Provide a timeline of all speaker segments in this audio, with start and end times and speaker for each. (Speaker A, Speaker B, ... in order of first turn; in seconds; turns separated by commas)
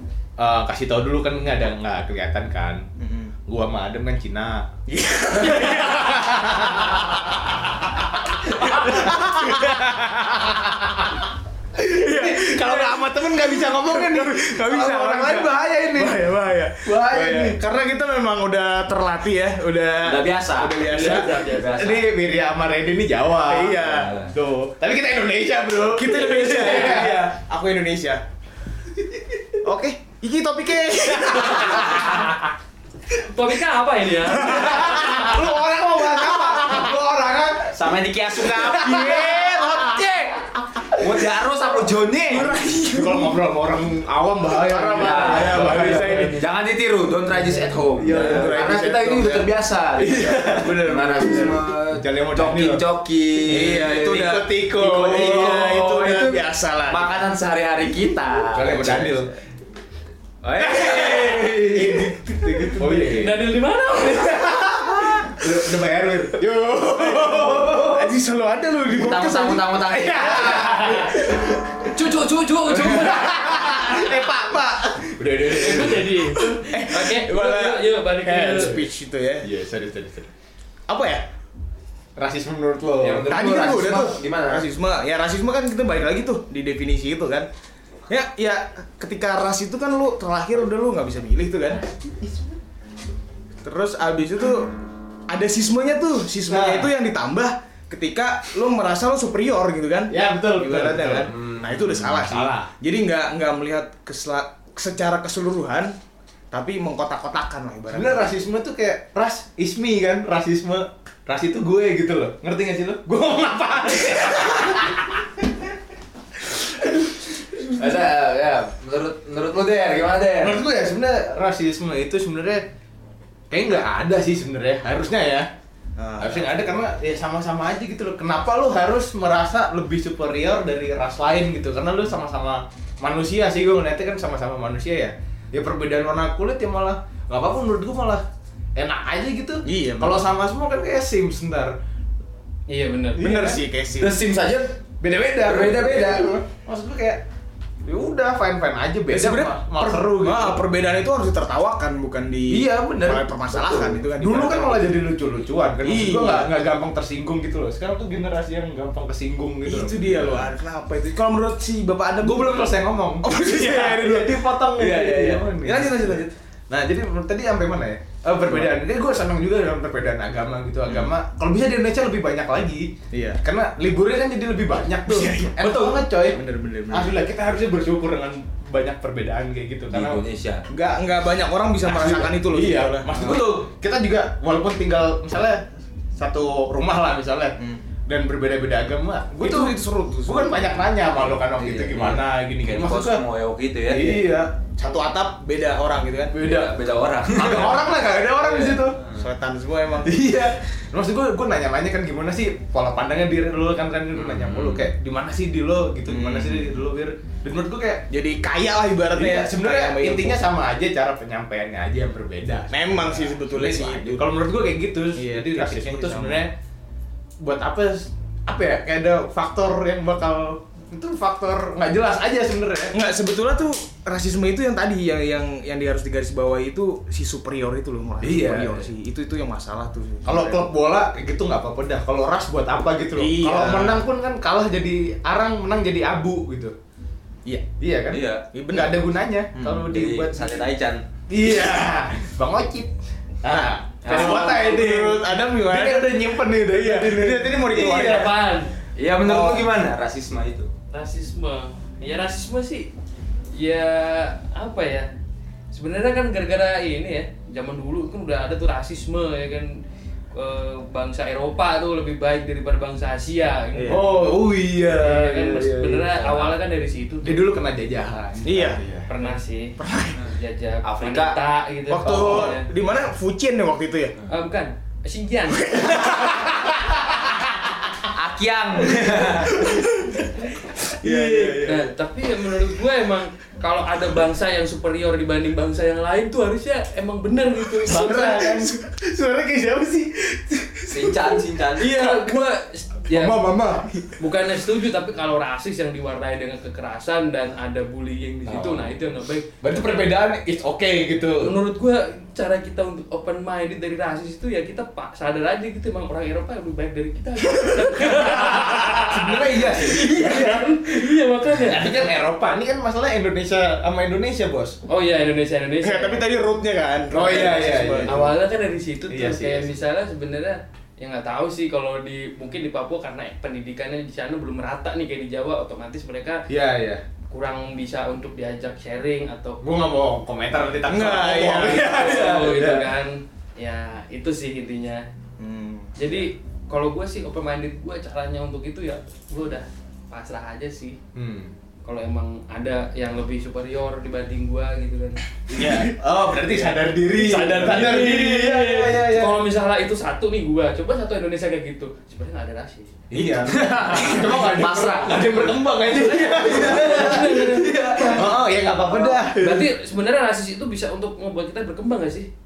Speaker A: 0.4-2.9, Speaker B: 3.0-3.3, Speaker A: 3.5-4.7, Speaker B: 4.9-10.7, Speaker A: 8.7-10.1, Speaker A: 11.8-16.2, Speaker B: 11.8-21.5, Speaker A: 16.8-17.6, Speaker C: 20.0-22.1, Speaker D: 20.9-21.8, Speaker A: 21.7-27.3, Speaker B: 23.4-24.2, Speaker C: 23.9-24.3, Speaker B: 25.9-28.2, Speaker B: 29.6-32.3, Speaker A: 31.2-31.9, Speaker D: 33.2-34.6, Speaker B: 34.3-36.9, Speaker A: 34.4-37.7, Speaker C: 37.7-40.4, Speaker A: 38.4-39.4, Speaker B: 38.8-40.1, Speaker C: 40.9-42.6, Speaker B: 42.3-43.4, Speaker A: 42.8-46.3, Speaker B: 44.5-46.5, Speaker C: 44.9-54.3, Speaker D: 45.9-46.4, Speaker B: 48.0-49.5, Speaker A: 48.0-48.6, Speaker A: 50.0-50.8, Speaker B: 50.2-51.6, Speaker A: 51.9-52.8, Speaker A: 53.4-56.0, Speaker B: 53.4-57.1, Speaker C: 55.3-59.3, Speaker A: 58.5-59.3, Speaker C: 60.4-62.0, Speaker A: 60.6-63.5, Speaker B: 61.7-63.2, Speaker D: 63.1-64.4, Speaker A: 64.0-68.1, Speaker B: 64.7-65.3, Speaker B: 66.9-71.5, Speaker C: 68.9-71.2, Speaker A: 70.0-71.8, Speaker D: 71.9-74.0, Speaker A: 72.8-76.5, Speaker D: 75.5-78.8, Speaker B: 76.6-79.5, Speaker A: 79.4-80.3, Speaker B: 80.9-81.3, Speaker A: 82.2-83.3, Speaker C: 83.0-84.7, Speaker B: 83.3-87.5, Speaker B: 88.1-91.9, Speaker B: 93.6-94.7, Speaker B: 95.3-106.0, Speaker A: 96.5-96.9, Speaker A: 100.1-101.3, Speaker C: 101.3-102.2, Speaker A: 102.1-102.7, Speaker B: 106.5-108.3, Speaker A: 107.9-115.0, Speaker C: 117.8-120.6, Speaker A: 120.4-122.6, Speaker A: 123.5-125.5, Speaker B: 126.0-126.6, Speaker A: 126.2-138.2, Speaker A: 138.8-141.7, Speaker B: 139.6-140.3, Speaker D: 142.7-143.2, Speaker B: 143.2-144.2, Speaker A: 143.2-143.6, Speaker C: 144.0-144.8, Speaker A: 145.0-147.2, Speaker C: 145.4-146.4, Speaker A: 147.8-150.6, Speaker B: 149.1-155.1, Speaker A: 152.5-160.5, Speaker B: 155.8-156.5, Speaker B: 159.6-166.3, Speaker A: 162.2-180.2, Speaker B: 168.4-168.8, Speaker B: 173.1-173.4, Speaker B: 175.1-177.3, Speaker C: 179.9-180.6, Speaker B: 180.7-183.6, Speaker A: 181.8-185.6, Speaker A: 186.2-193.2, Speaker B: 187.6-187.8, Speaker B: 189.3-191.0, Speaker C: 191.3-194.3, Speaker A: 193.9-194.5, Speaker B: 194.8-196.4, Speaker A: 196.3-196.8, Speaker C: 196.4-197.9, Speaker A: 197.3-199.0, Speaker C: 198.4-199.2, Speaker B: 199.1-200.3, Speaker A: 200.0-208.1, Speaker C: 204.1-204.9, Speaker B: 206.1-206.8, Speaker B: 208.1-210.5, Speaker A: 209.1-216.6, Speaker B: 212.7-214.3, Speaker B: 215.1-216.5, Speaker A: 217.4-222.9, Speaker B: 222.9-230.7, Speaker A: 228.2-228.9, Speaker A: 230.2-236.8, Speaker B: 233.1-234.1, Speaker A: 237.8-240.5, Speaker C: 238.1-238.4, Speaker B: 238.5-239.9, Speaker C: 239.9-241.0, Speaker A: 241.3-242.9, Speaker A: 243.4-248.3, Speaker C: 244.0-244.6, Speaker B: 244.1-248.3, Speaker D: 247.8-248.7, Speaker C: 248.9-250.7, Speaker B: 249.2-249.7, Speaker D: 250.9-252.9, Speaker D: 253.5-255.1, Speaker D: 255.7-259.8, Speaker D: 260.3-267.5, Speaker B: 263.7-264.1, Speaker A: 263.9-266.2, Speaker C: 266.2-266.5, Speaker A: 267.2-269.1, Speaker B: 268.4-268.8, Speaker D: 269.1-272.7, Speaker B: 269.8-270.2, Speaker C: 270.8-271.4, Speaker B: 271.9-274.2, Speaker A: 272.0-272.5, Speaker D: 274.3-276.1, Speaker C: 278.1-279.5, Speaker A: 278.9-279.8, Speaker B: 281.0-281.8, Speaker A: 281.0-281.9, Speaker D: 281.6-288.6, Speaker A: 287.8-291.2, Speaker C: 290.9-291.9, Speaker A: 291.8-292.4, Speaker D: 291.8-293.4, Speaker B: 292.1-292.4, Speaker A: 293.1-294.1, Speaker D: 294.2-299.5, Speaker A: 298.5-298.8, Speaker A: 299.6-301.6, Speaker D: 301.4-312.1, Speaker A: 308.0-314.8, Speaker D: 314.9-316.2, Speaker B: 315.8-318.3, Speaker A: 317.1-318.4, Speaker D: 318.1-326.4, Speaker A: 319.1-319.7, Speaker A: 326.5-327.0, Speaker D: 327.3-329.6, Speaker A: 329.6-332.9, Speaker B: 330.8-332.2, Speaker D: 331.6-335.0, Speaker B: 335.4-336.0, Speaker D: 336.0-341.0, Speaker A: 341.1-341.5, Speaker D: 341.9-345.2, Speaker B: 345.5-346.0, Speaker A: 345.5-349.4, Speaker D: 346.5-358.3, Speaker A: 353.1-359.7, Speaker C: 353.4-355.5, Speaker D: 358.9-362.3